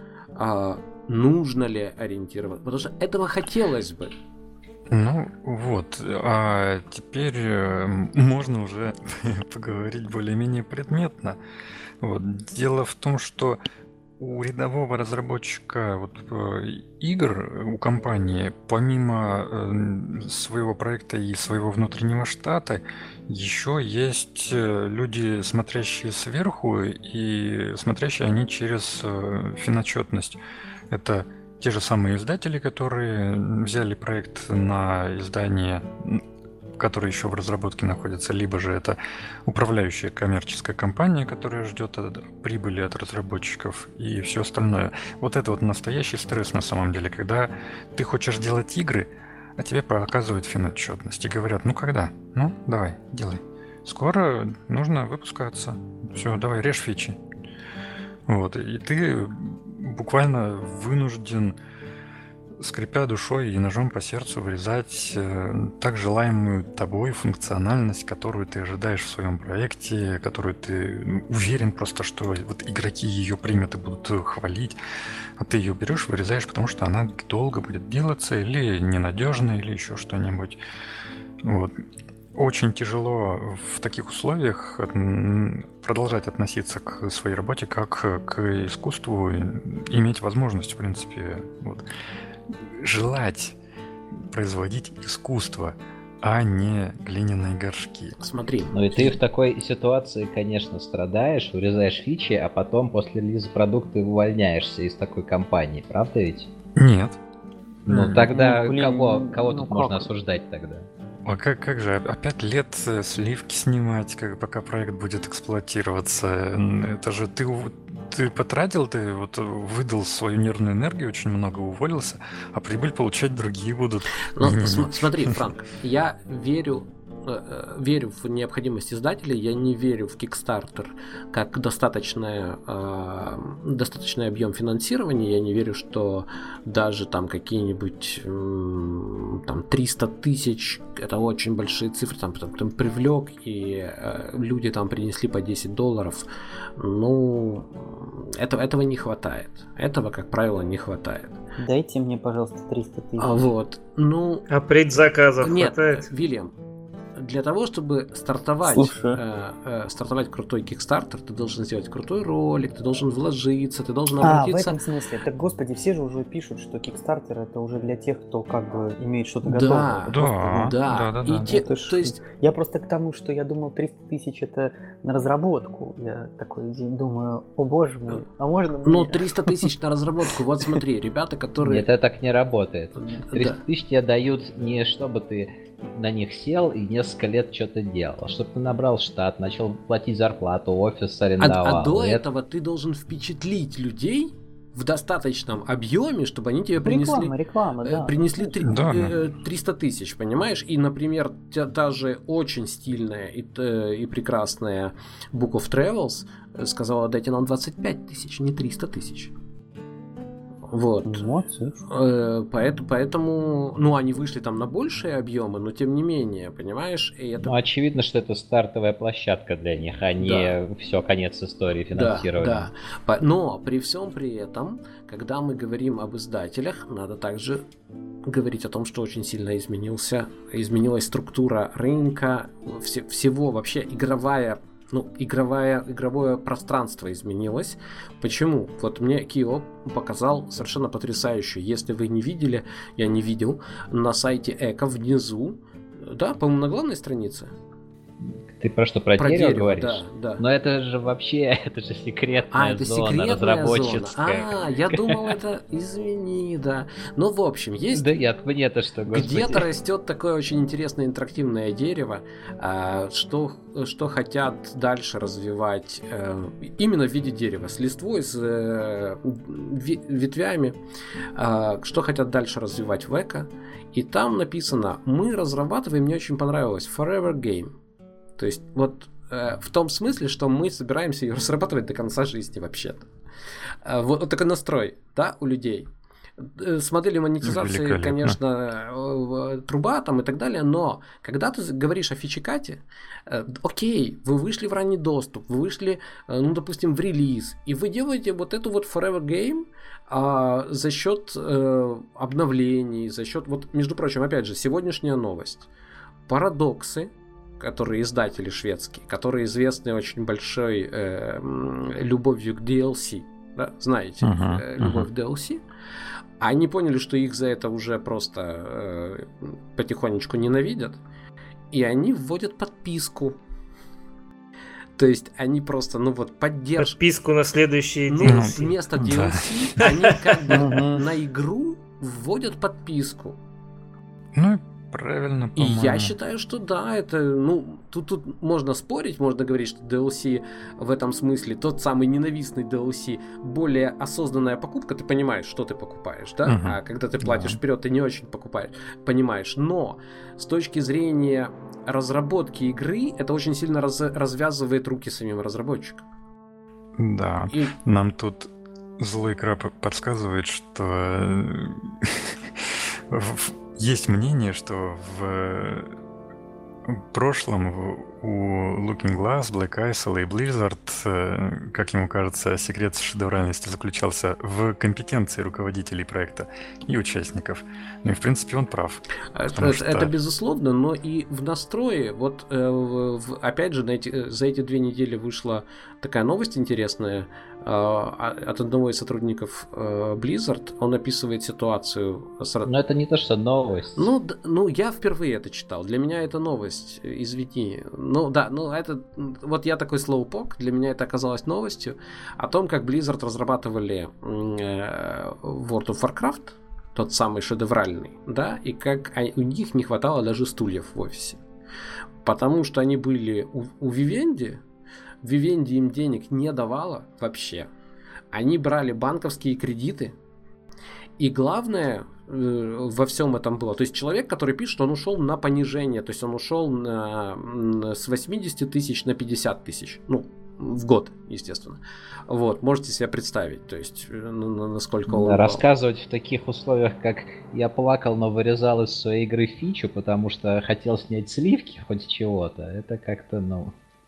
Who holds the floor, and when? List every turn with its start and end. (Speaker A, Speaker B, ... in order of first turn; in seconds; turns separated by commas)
Speaker A: 0.3-4.1, Speaker B: 4.9-11.4, Speaker B: 12.0-13.6, Speaker B: 14.2-30.4, Speaker B: 30.9-36.2, Speaker B: 36.8-57.2, Speaker B: 58.3-61.5, Speaker B: 62.6-74.8, Speaker B: 75.4-80.6, Speaker B: 81.4-81.7, Speaker B: 82.3-91.8, Speaker B: 92.6-93.5, Speaker B: 94.3-98.2, Speaker A: 98.2-99.2, Speaker C: 98.7-106.5, Speaker B: 106.8-107.2, Speaker B: 107.8-108.3, Speaker D: 107.9-110.1, Speaker C: 107.9-110.9, Speaker B: 111.2-125.3, Speaker A: 124.3-151.3, Speaker D: 151.6-153.4, Speaker A: 153.2-154.5, Speaker E: 154.5-156.1, Speaker A: 155.4-156.5, Speaker A: 157.1-164.8, Speaker D: 158.6-159.2, Speaker D: 164.2-170.7, Speaker A: 169.4-172.2, Speaker B: 170.1-171.5, Speaker D: 171.3-179.7, Speaker A: 178.8-181.9, Speaker C: 181.6-192.2, Speaker A: 183.2-183.6, Speaker A: 191.4-209.3, Speaker D: 196.8-198.5, Speaker B: 198.6-199.2, Speaker A: 210.7-211.2, Speaker D: 211.1-211.8, Speaker A: 211.9-217.5, Speaker C: 217.4-222.7, Speaker A: 220.2-220.5, Speaker A: 221.9-227.6, Speaker A: 228.2-247.5, Speaker C: 248.2-255.3, Speaker A: 249.2-250.4, Speaker A: 252.5-258.1, Speaker C: 257.9-259.7, Speaker A: 259.1-270.8, Speaker A: 271.3-277.7, Speaker A: 278.4-283.1, Speaker A: 283.8-305.7, Speaker B: 287.4-288.4, Speaker A: 306.3-315.6, Speaker B: 314.2-315.1, Speaker A: 316.4-321.0, Speaker A: 321.7-323.4, Speaker A: 324.9-327.0, Speaker E: 326.8-328.7, Speaker A: 328.1-333.4, Speaker B: 328.2-329.8, Speaker E: 329.8-330.3, Speaker D: 330.5-331.0, Speaker B: 334.3-336.1, Speaker A: 335.6-356.0, Speaker B: 346.4-347.6, Speaker B: 357.0-365.9, Speaker A: 357.5-357.7, Speaker B: 366.9-380.1, Speaker A: 379.3-392.7, Speaker C: 392.6-394.1, Speaker A: 394.0-411.4, Speaker A: 412.2-414.6, Speaker A: 415.2-417.7, Speaker A: 418.3-420.1, Speaker A: 421.2-435.6, Speaker C: 435.1-443.7